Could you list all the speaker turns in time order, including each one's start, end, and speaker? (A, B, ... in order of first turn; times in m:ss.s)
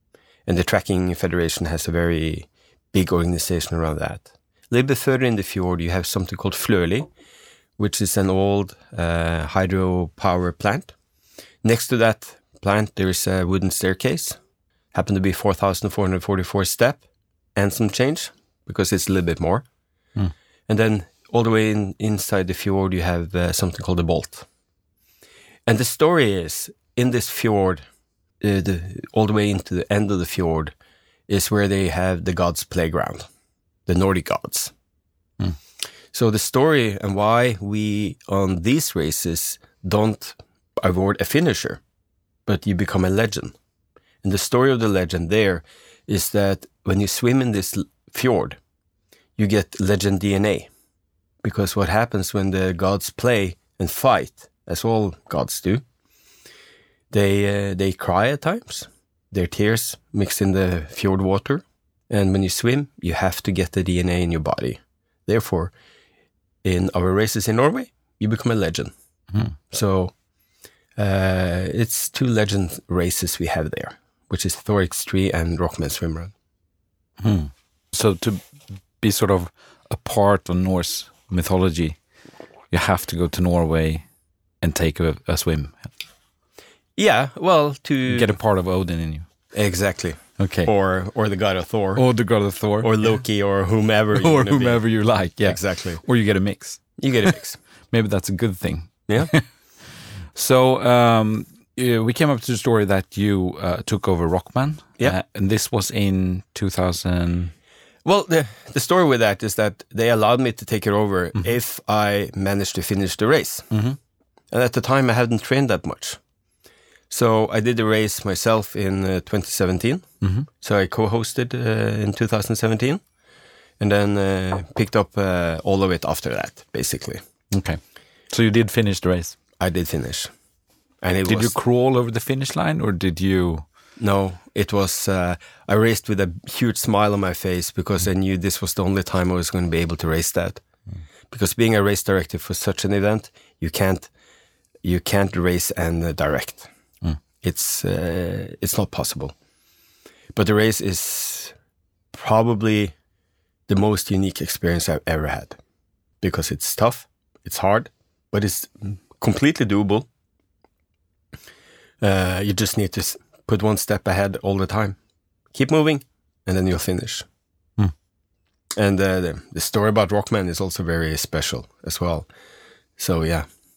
0:00.4-0:07.1 A
0:07.8-0:10.9 A
0:11.6-0:14.4 A
0:14.9-0:17.0 A
0:17.6-0:19.6 A
0:20.7-0:24.4 A
0:25.6-0:27.8 A
0:28.4-0:30.7 A
0:31.3-0:33.3 A
0:33.9-0:34.7 A
0:36.1-0:41.8 A
0:42.4-0:43.5 A
0:44.2-0:48.6 A
0:49.4-0:50.7 A
0:51.4-0:55.8 A
0:57.1-1:05.7 A
1:06.6-1:08.9 A
1:09.7-1:10.1 A
1:11.0-1:16.3 A
1:17.2-1:22.0 B
1:22.7-1:24.0 B
1:24.6-1:25.9 B
1:27.0-1:28.4 A
1:28.1-1:29.3 B
1:29.5-1:32.1 A
1:30.4-1:30.7 B
1:31.9-1:33.2 B
1:32.8-1:36.0 A
1:34.1-1:37.3 B
1:37.0-1:37.6 A
1:37.9-1:47.5 B
1:39.1-1:39.3 A
1:48.0-1:53.7 A
1:53.7-1:54.0 B
1:54.5-1:56.2 A
1:57.1-2:00.1 A
2:00.2-2:00.5 B
2:00.6-2:03.0 A
2:03.8-2:07.2 A
2:07.5-2:09.4 B
2:09.6-2:10.3 A
2:11.0-2:11.5 A
2:11.2-2:13.6 B
2:14.0-2:20.6 A
2:21.3-2:24.1 A
2:24.8-2:26.7 A
2:27.4-2:29.3 A
2:30.3-2:31.5 A
2:32.1-2:32.9 A
2:33.7-2:35.6 A
2:36.2-2:40.1 A
2:42.0-2:45.0 A
2:45.5-2:47.2 A
2:48.8-2:52.3 A
2:53.0-2:53.4 A